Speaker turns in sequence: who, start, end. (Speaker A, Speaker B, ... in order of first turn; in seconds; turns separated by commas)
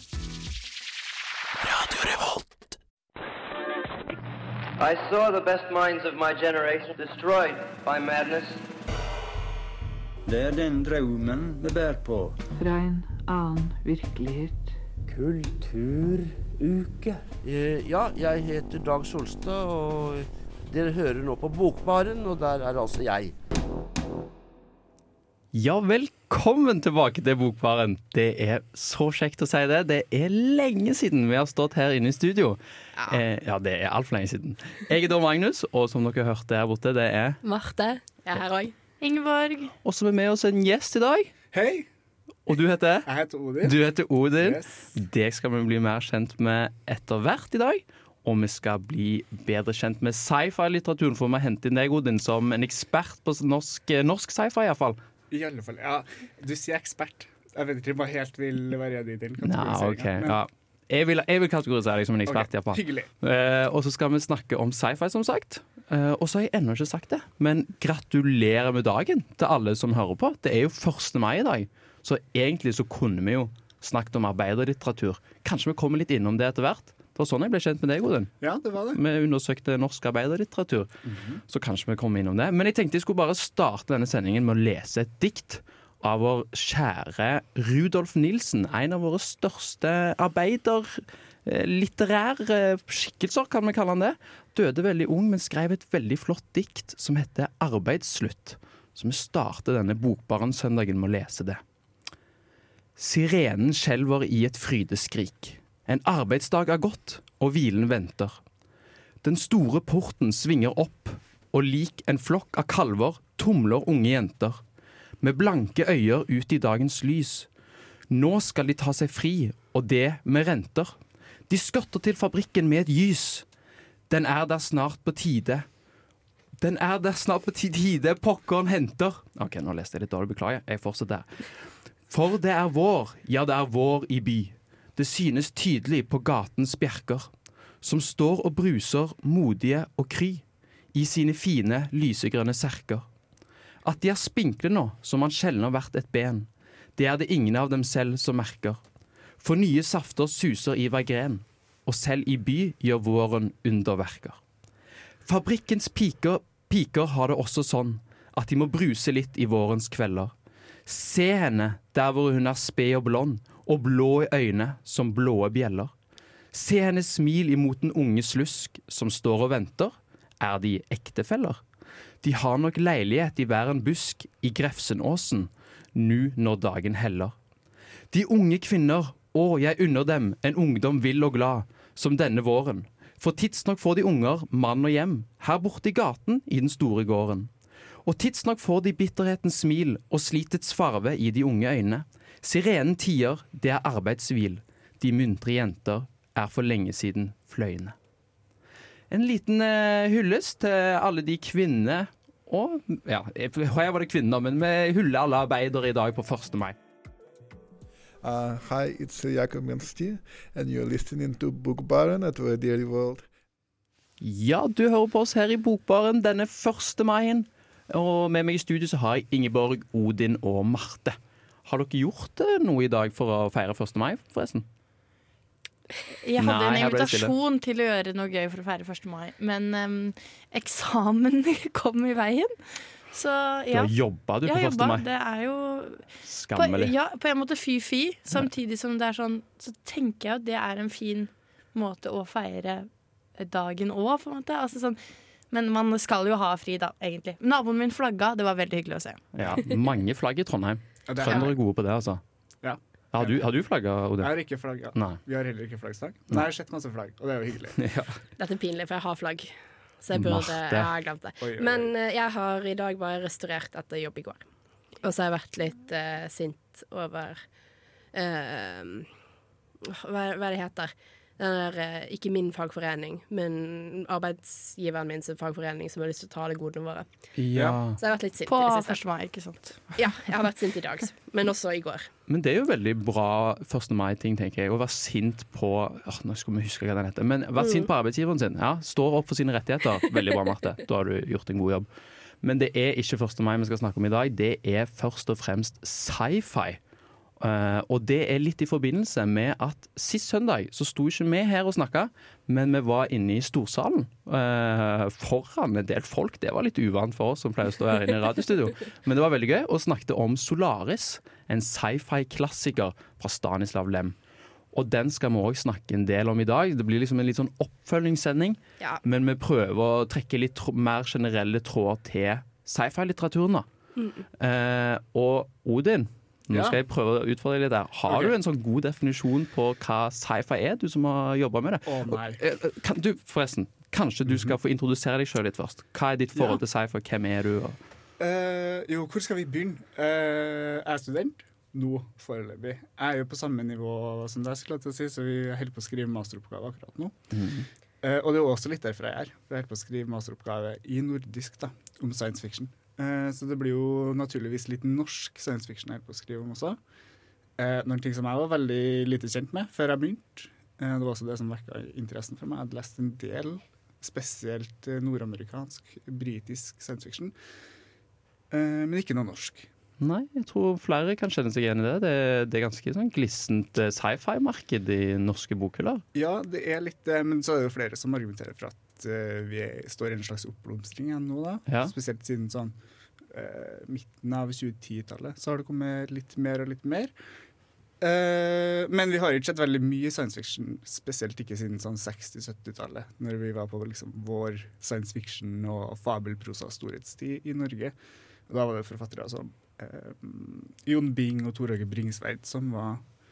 Speaker A: 4.8-8.6, Speaker B: 10.3-12.4, Speaker C: 12.6-14.7, Speaker D: 15.1-23.4, Speaker E: 25.5-37.4, Speaker F: 37.4-38.7, Speaker G: 39.0-39.7, Speaker E: 39.9-41.3, Speaker H: 41.5-41.9, Speaker E: 42.5-43.1, Speaker H: 43.1-43.8, Speaker E: 43.6-55.0, Speaker H: 44.4-44.9, Speaker H: 55.3-60.4, Speaker E: 59.4-78.3, Speaker H: 62.2-63.1, Speaker H: 78.4-79.0, Speaker E: 78.9-80.9, Speaker H: 81.1-81.4, Speaker E: 81.5-101.6, Speaker E: 103.0-108.4, Speaker E: 109.2-114.6, Speaker E: 115.2-117.5, Speaker E: 118.1-121.0, Speaker E: 121.5-123.5, Speaker E: 124.1-125.7, Speaker E: 126.6-137.3, Speaker E: 137.8-143.1, Speaker E: 143.8-148.8, Speaker E: 149.4-154.4, Speaker E: 155.2-160.3, Speaker E: 160.9-165.9, Speaker E: 166.5-171.6, Speaker E: 172.2-177.3, Speaker E: 178.1-187.5, Speaker E: 188.1-197.9, Speaker E: 199.1-206.8, Speaker I: 208.2-213.3, Speaker E: 214.2-224.7, Speaker G: 226.2-233.9, Speaker E: 226.4-227.3, Speaker E: 233.7-235.0, Speaker G: 234.4-249.2, Speaker E: 236.2-236.9, Speaker E: 249.3-252.2, Speaker H: 251.1-251.6, Speaker H: 252.6-253.5, Speaker E: 253.1-254.3, Speaker H: 254.2-257.8, Speaker E: 254.9-255.2, Speaker E: 257.8-258.1, Speaker F: 258.4-264.4, Speaker E: 260.1-260.9, Speaker H: 261.4-261.9, Speaker F: 265.0-267.4, Speaker F: 268.1-269.1, Speaker F: 269.9-277.1, Speaker E: 277.4-278.0, Speaker H: 277.5-277.8, Speaker F: 278.0-279.0, Speaker G: 278.5-279.9, Speaker F: 280.0-282.1, Speaker E: 282.3-291.9, Speaker F: 287.6-287.9, Speaker E: 292.4-296.8, Speaker E: 297.4-314.1, Speaker E: 314.7-323.7, Speaker F: 324.0-324.3, Speaker E: 324.4-337.8, Speaker H: 326.5-326.8, Speaker H: 328.1-328.4, Speaker H: 331.9-332.4, Speaker H: 334.3-334.6, Speaker H: 336.3-336.6, Speaker H: 338.2-347.2, Speaker E: 347.3-347.7, Speaker H: 348.0-356.8, Speaker H: 357.6-367.4, Speaker H: 368.5-369.7, Speaker E: 370.0-376.0, Speaker H: 376.1-382.8, Speaker E: 381.7-381.9, Speaker H: 383.3-387.1, Speaker H: 388.0-397.9, Speaker H: 398.5-403.0